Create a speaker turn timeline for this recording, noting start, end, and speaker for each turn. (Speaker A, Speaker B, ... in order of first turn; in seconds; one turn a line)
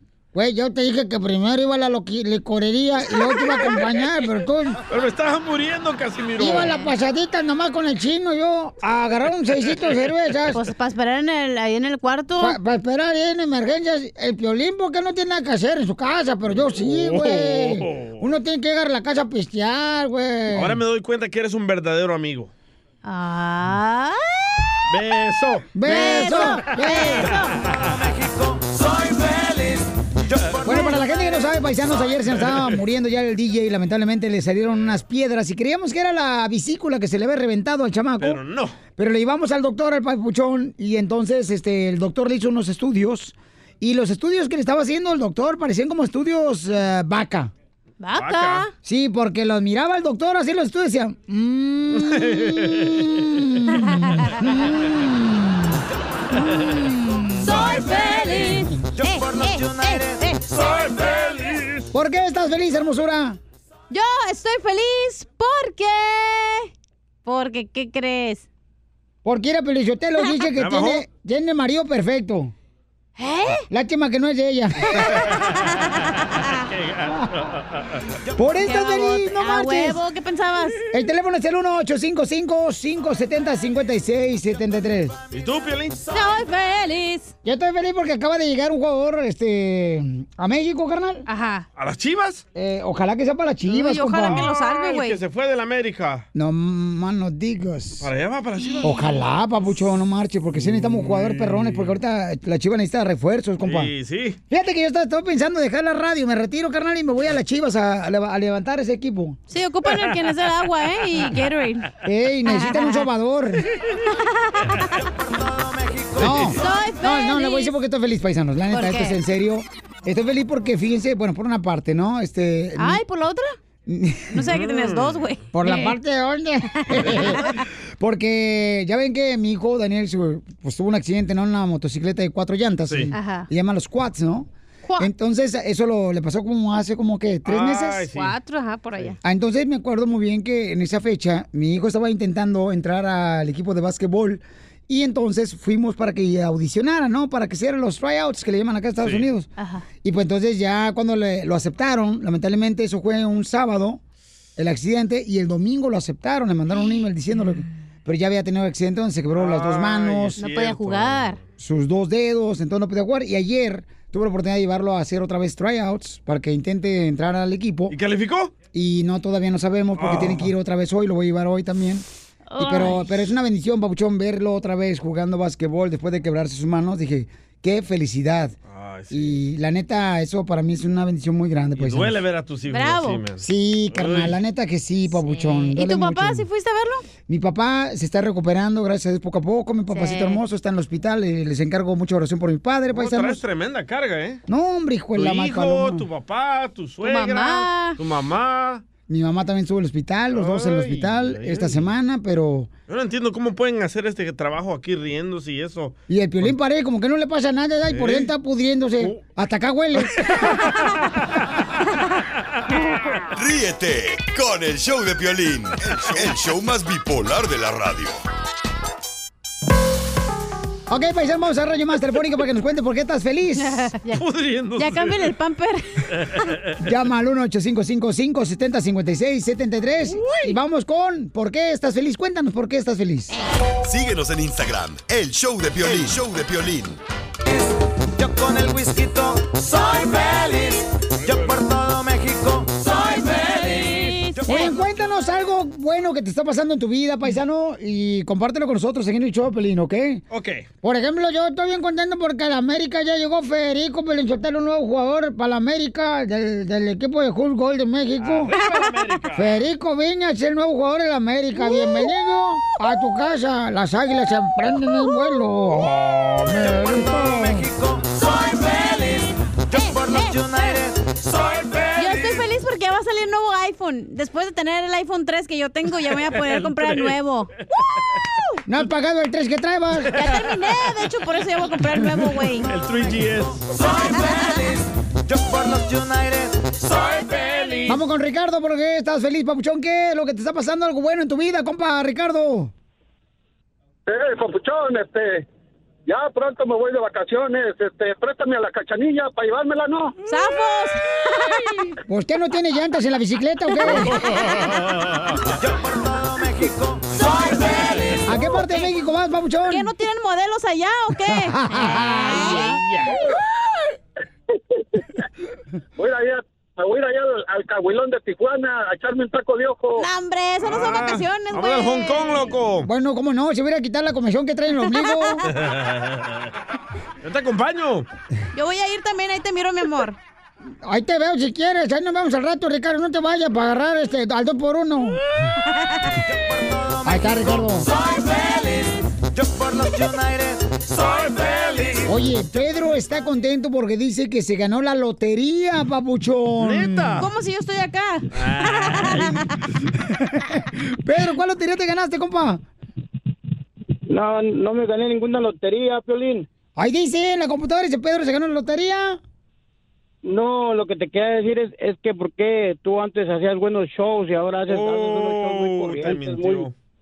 Speaker A: 0.3-4.8
Speaker B: 4.9-6.7
Speaker A: 6.4-10.6
Speaker C: 6.5-6.9
Speaker C: 10.5-12.6
Speaker A: 12.4-20.8
Speaker B: 16.7-18.2
Speaker B: 20.5-22.5
Speaker C: 23.0-24.4
Speaker B: 24.9-26.4
Speaker A: 25.7-27.4
Speaker C: 25.8-27.6
Speaker B: 27.3-27.9
Speaker D: 27.8-30.9
Speaker A: 30.6-38.4
Speaker B: 38.2-38.8
Speaker A: 39.0-47.5
Speaker C: 48.0-48.7
Speaker B: 48.1-48.7
Speaker A: 48.8-55.8
Speaker B: 52.0-53.0
Speaker C: 53.7-54.2
Speaker C: 56.3-60.6
Speaker D: 59.0-60.7
Speaker B: 60.7-61.9
Speaker A: 61.9-63.4
Speaker C: 63.9-66.7
Speaker C: 67.2-68.5
Speaker A: 69.2-72.5
Speaker B: 70.5-71.0
Speaker C: 73.2-73.7
Speaker A: 73.7-75.2
Speaker C: 75.0-76.6
Speaker B: 76.7-78.0
Speaker A: 78.3-80.0
Speaker C: 78.6-80.8
Speaker A: 80.9-85.2
Speaker B: 85.3-86.0
Speaker C: 86.1-87.3
Speaker A: 87.4-91.2
Speaker C: 91.2-91.7
Speaker B: 91.8-92.4
Speaker A: 92.5-94.4
Speaker C: 93.7-95.2
Speaker B: 94.2-96.2
Speaker A: 96.3-98.1
Speaker B: 98.0-99.0
Speaker C: 98.6-98.8
Speaker A: 98.8-103.9
Speaker B: 100.5-102.0
Speaker B: 103.6-104.4
Speaker A: 104.5-109.4
Speaker C: 109.5-111.9
Speaker A: 112.0-113.7
Speaker C: 112.4-113.1
Speaker C: 114.1-115.0
Speaker D: 115.3-116.4
Speaker A: 116.2-123.0
Speaker C: 116.5-117.8
Speaker C: 118.7-119.2
Speaker C: 122.8-123.5
Speaker A: 123.8-124.5
Speaker C: 124.3-126.0
Speaker B: 124.5-125.2
Speaker A: 125.5-138.1
Speaker C: 126.7-127.6
Speaker C: 133.1-133.5
Speaker C: 134.8-135.1
Speaker B: 137.4-138.3
Speaker C: 138.1-139.2
Speaker A: 139.2-149.5
Speaker B: 149.0-149.3
Speaker C: 149.6-149.8
Speaker A: 150.0-154.0
Speaker A: 154.6-160.4
Speaker B: 159.3-161.4
Speaker C: 160.3-161.4
Speaker A: 161.6-167.9
Speaker B: 167.9-168.5
Speaker A: 168.7-172.0
Speaker B: 169.9-170.5
Speaker C: 172.5-173.3
Speaker A: 172.6-178.5
Speaker B: 178.7-179.4
Speaker A: 179.1-182.2
Speaker B: 181.8-184.4
Speaker C: 182.7-183.2
Speaker A: 183.4-186.5
Speaker C: 185.1-187.0
Speaker A: 187.3-193.4
Speaker C: 189.9-190.4
Speaker B: 192.9-194.4
Speaker A: 194.5-196.1
Speaker B: 195.1-198.8
Speaker C: 197.0-198.0
Speaker A: 199.1-202.7
Speaker B: 200.3-201.9
Speaker B: 202.9-206.6
Speaker A: 206.1-210.2
Speaker B: 207.9-208.3
Speaker E: 213.3-218.2
Speaker A: 220.9-223.9
Speaker C: 223.6-224.2
Speaker B: 224.1-225.3
Speaker C: 224.8-225.8
Speaker B: 226.1-226.7
Speaker A: 226.8-233.3
Speaker B: 230.2-230.5
Speaker E: 233.8-237.0
Speaker D: 238.2-243.6
Speaker B: 241.2-241.5
Speaker C: 243.1-244.7
Speaker A: 244.4-250.2
Speaker B: 250.3-250.7
Speaker A: 250.8-258.5
Speaker B: 258.2-259.6
Speaker A: 259.4-267.7
Speaker C: 261.7-262.1
Speaker D: 266.7-268.1
Speaker C: 268.6-270.8
Speaker D: 269.7-271.7
Speaker C: 271.9-277.5
Speaker B: 276.1-277.2
Speaker A: 278.7-280.1
Speaker C: 280.1-282.8
Speaker B: 282.6-283.7
Speaker D: 283.2-287.2
Speaker C: 284.0-284.7
Speaker B: 287.2-288.0
Speaker C: 287.6-287.9
Speaker A: 287.9-292.7
Speaker F: 299.2-300.1
Speaker C: 300.2-301.9
Speaker A: 302.1-304.2
Speaker C: 303.8-304.7
Speaker D: 305.5-308.0
Speaker C: 307.2-308.9
Speaker A: 308.2-309.9
Speaker C: 309.7-312.8
Speaker A: 311.2-312.6
Speaker B: 312.3-313.2
Speaker C: 319.9-322.5
Speaker B: 320.6-322.9
Speaker A: 322.8-325.4
Speaker C: 324.9-325.4
Speaker B: 325.5-326.5
Speaker B: 327.2-328.1
Speaker C: 328.5-330.2
Speaker A: 330.8-335.2
Speaker D: 336.2-337.8
Speaker A: 337.0-337.9
Speaker C: 337.9-339.1
Speaker D: 339.2-341.6
Speaker B: 341.3-342.0
Speaker A: 342.0-347.2
Speaker B: 346.6-347.3
Speaker C: 347.2-349.4
Speaker B: 348.3-349.4
Speaker A: 349.9-352.6
Speaker F: 354.1-356.5
Speaker A: 356.8-359.2
Speaker F: 360.2-366.7
Speaker B: 364.7-366.7